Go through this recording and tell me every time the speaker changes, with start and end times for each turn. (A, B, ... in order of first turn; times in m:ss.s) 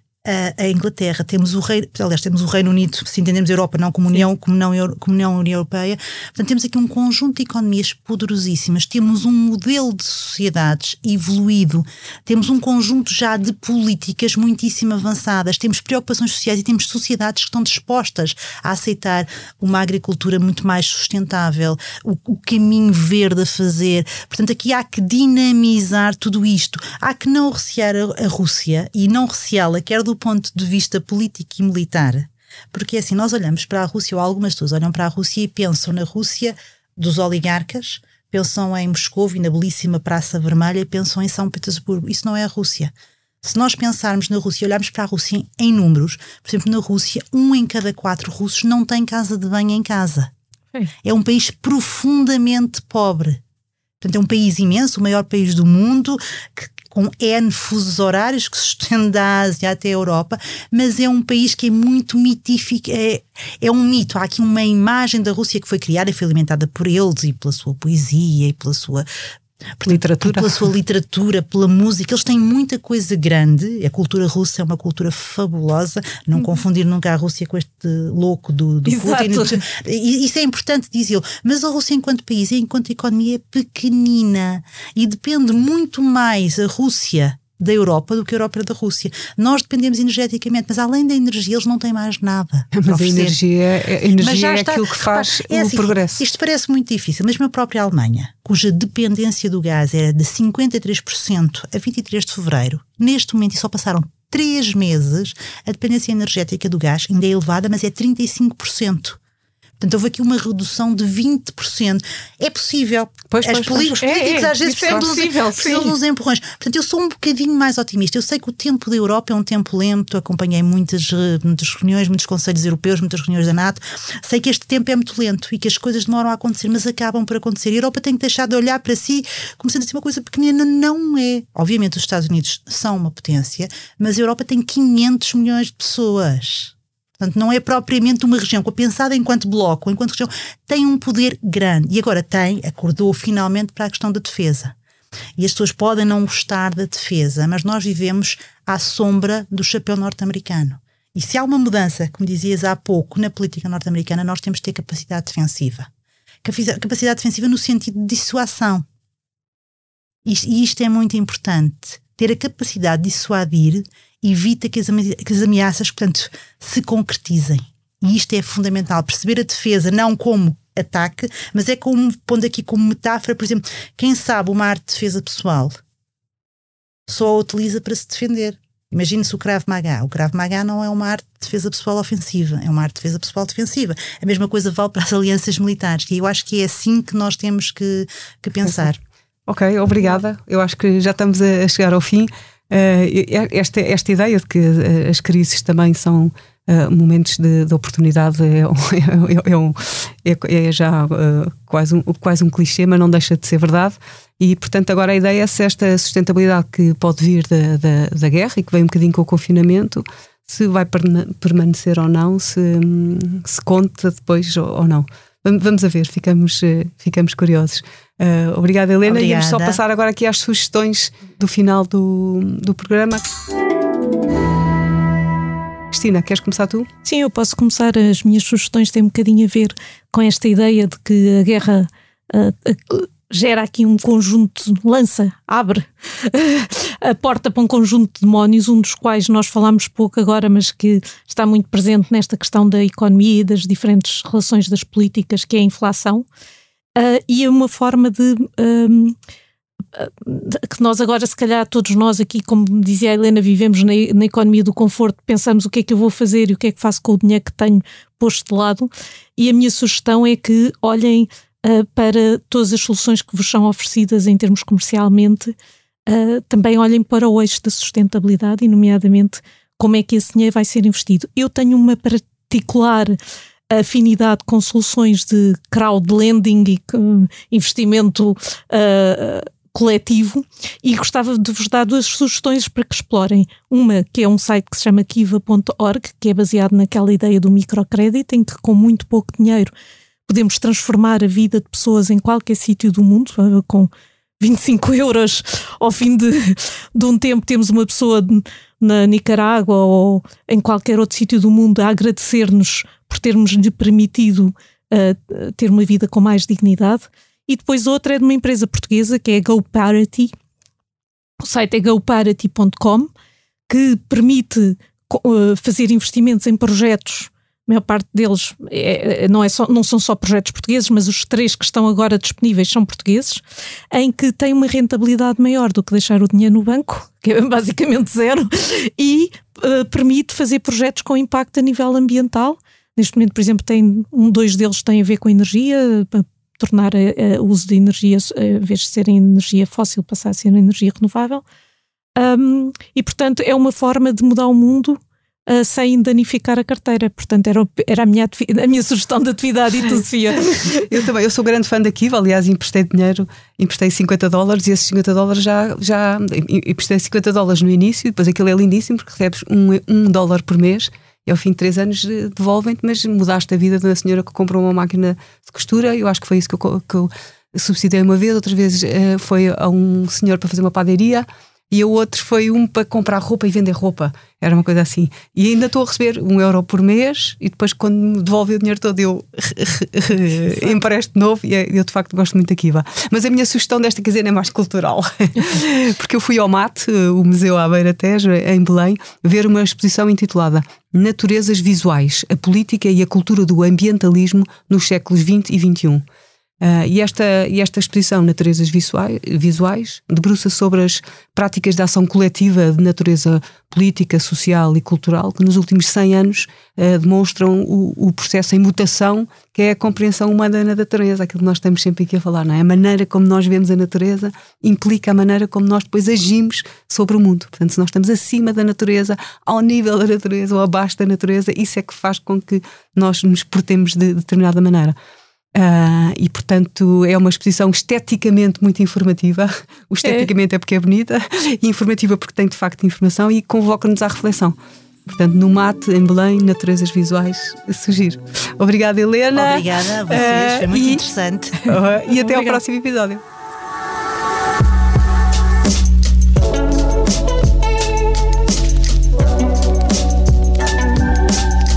0:00.2-0:50.3 A
0:51.0-0:53.4 A
0:54.0-1:09.1 A
1:09.8-1:33.4 A
1:09.9-1:10.7 B
1:18.9-1:19.6 C
1:32.7-1:36.2 B
1:34.2-1:49.2 A
1:49.8-2:24.8 A
1:53.3-1:54.0 B
1:54.0-1:56.0 C
1:54.9-1:55.1 B
2:25.4-2:35.9 A
2:36.4-2:38.9 A
2:40.2-2:55.8 A
2:57.1-3:09.0 A
3:08.6-3:08.9 B
3:09.5-3:43.3 B
3:39.0-3:39.8 A
3:45.9-3:46.9 B
3:47.0-4:06.3 C
4:07.0-4:09.2 C
4:09.9-4:25.6 C
4:26.1-4:33.2 C
4:33.7-4:49.7 C
4:50.3-5:10.3 C
5:11.4-5:13.1 C
5:13.7-5:41.4 C
5:42.2-5:50.7 C
5:50.4-6:36.0 B
6:36.6-7:05.0 B
7:05.6-7:14.6 B
7:10.0-7:10.3 C
7:15.1-7:21.1 B
7:19.3-7:21.6 A
7:21.6-7:23.2 B
7:22.1-7:22.6 C